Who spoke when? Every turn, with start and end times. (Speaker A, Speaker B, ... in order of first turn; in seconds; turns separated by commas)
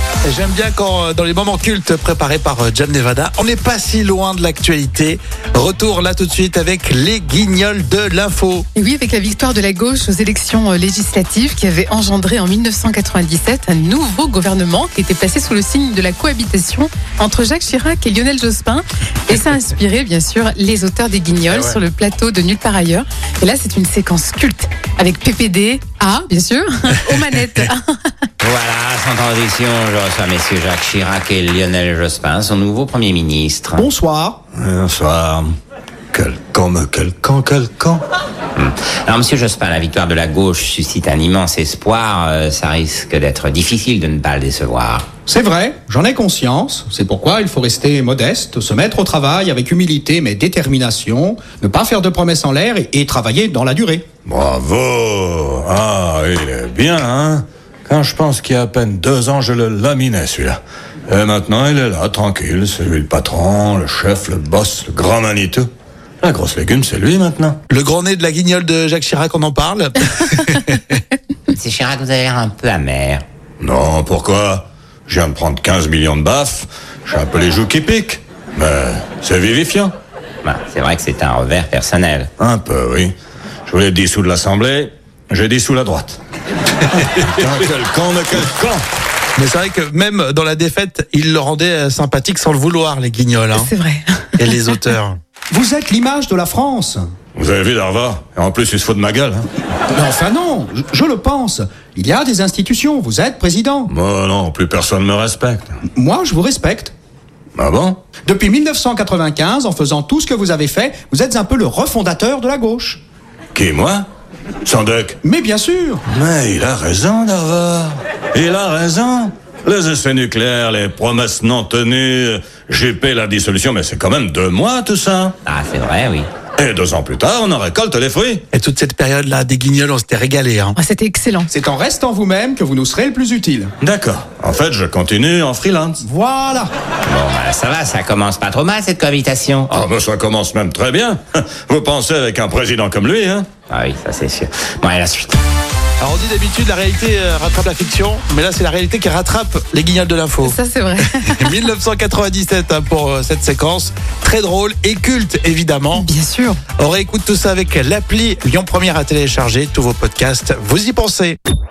Speaker A: 0.3-8.7, Speaker B: 8.8-27.8, Speaker C: 28.4-33.8, Speaker D: 33.7-34.4, Speaker E: 34.5-35.5, Speaker E: 36.1-38.0, Speaker C: 38.6-45.1, Speaker D: 45.3-54.1, Speaker E: 54.3-65.7, Speaker E: 66.2-67.6, Speaker A: 67.7-71.0, Speaker C: 71.5-73.2, Speaker E: 73.6-79.9, Speaker C: 80.4-82.3, Speaker E: 82.4-83.1, Speaker E: 83.7-86.2, Speaker E: 86.9-88.8, Speaker A: 89.4-93.7, Speaker B: 93.5-94.8, Speaker A: 94.4-95.2, Speaker D: 95.5-97.0, Speaker E: 97.4-99.5, Speaker D: 99.9-103.9, Speaker E: 103.9-105.8, Speaker D: 106.0-106.9, Speaker E: 107.6-108.0, Speaker D: 108.3-113.0, Speaker E: 113.5-114.1, Speaker E: 114.6-115.2, Speaker D: 115.2-116.0, Speaker E: 116.1-125.4, Speaker C: 125.5-126.3, Speaker E: 126.6-128.4, Speaker A: 128.5-130.8, Speaker B: 130.8-131.5, Speaker D: 131.5-133.7, Speaker E: 133.8-136.0, Speaker D: 136.0-136.7, Speaker C: 137.1-139.8, Speaker E: 139.7-143.5, Speaker C: 143.7-145.4, Speaker A: 146.0-156.1, Speaker B: 150.4-151.5, Speaker B: 155.9-156.6, Speaker A: 156.7-161.4